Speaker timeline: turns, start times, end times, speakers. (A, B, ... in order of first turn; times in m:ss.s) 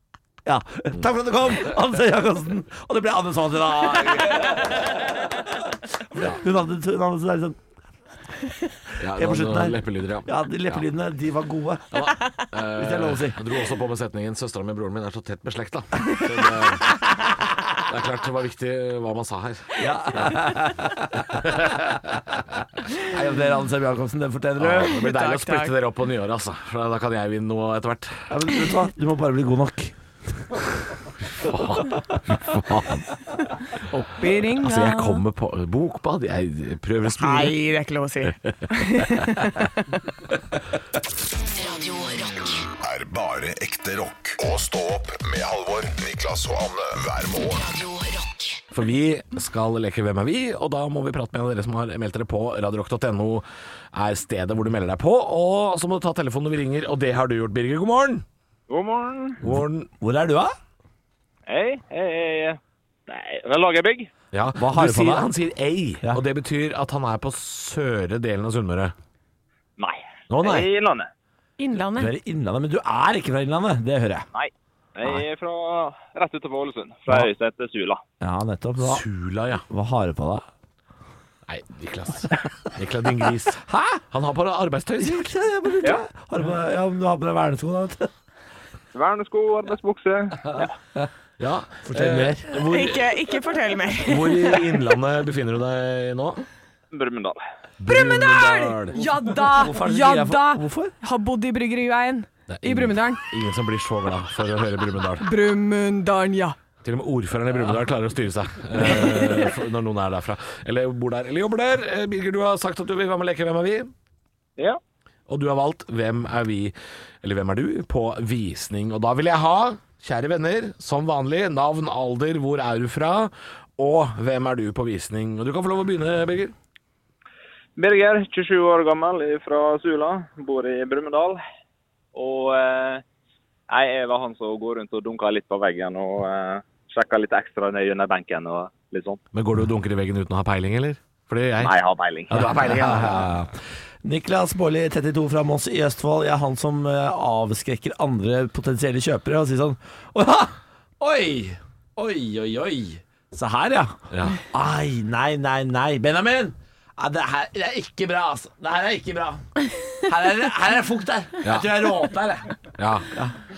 0:00.4-0:07.6 A
0:09.0-0:10.8 B
0:09.0-0:12.1 A
0:11.9-0:17.0 B
0:12.6-0:13.4 A
0:17.8-0:20.4 B
0:19.8-0:25.0 A
0:21.4-0:22.0 B
0:24.6-0:28.2 B
0:24.8-0:25.7 C
0:28.3-0:30.0 A
0:31.4-0:33.0 B
0:33.6-0:35.2 C
0:34.6-0:37.5 B
0:37.1-0:39.8 C
0:41.4-0:42.7 D
0:42.8-0:47.7 E
0:47.5-0:48.6 D
0:48.7-0:58.2 B
0:58.7-0:59.4 F
0:59.4-0:59.9 B
1:00.0-1:00.6 A
1:01.5-1:04.1 F
1:04.3-1:08.9 B
1:04.5-1:05.3 A
1:09.8-1:11.1 F
1:10.3-1:10.7 B
1:11.6-1:12.1 C
1:11.9-1:14.3 A
1:14.3-1:18.0 F
1:18.2-1:19.0 A
1:18.8-1:19.6 B
1:19.7-1:20.4 A
1:21.5-1:25.3 B
1:23.7-1:24.0 A
1:25.0-1:28.1 A
1:28.9-1:30.7 F
1:31.4-1:33.1 B
1:31.8-1:32.6 A
1:32.5-1:34.8 C
1:34.0-1:36.4 B
1:36.9-1:37.4 F
1:37.8-1:40.9 A
1:37.8-1:43.2 C
1:37.9-1:38.9 B
1:42.5-1:45.3 B
1:45.2-1:46.6 C
1:46.8-1:53.9 B
1:48.8-1:49.4 C
1:55.3-2:06.5 B
2:07.8-2:11.4 F
2:12.1-2:13.0 F
2:13.7-2:19.2 F
2:19.3-2:21.7 B
2:21.6-2:22.6 F
2:22.3-2:23.3 B
2:22.5-2:39.4 A
2:34.1-2:34.4 B
2:40.0-2:42.5 A
2:42.8-2:43.1 B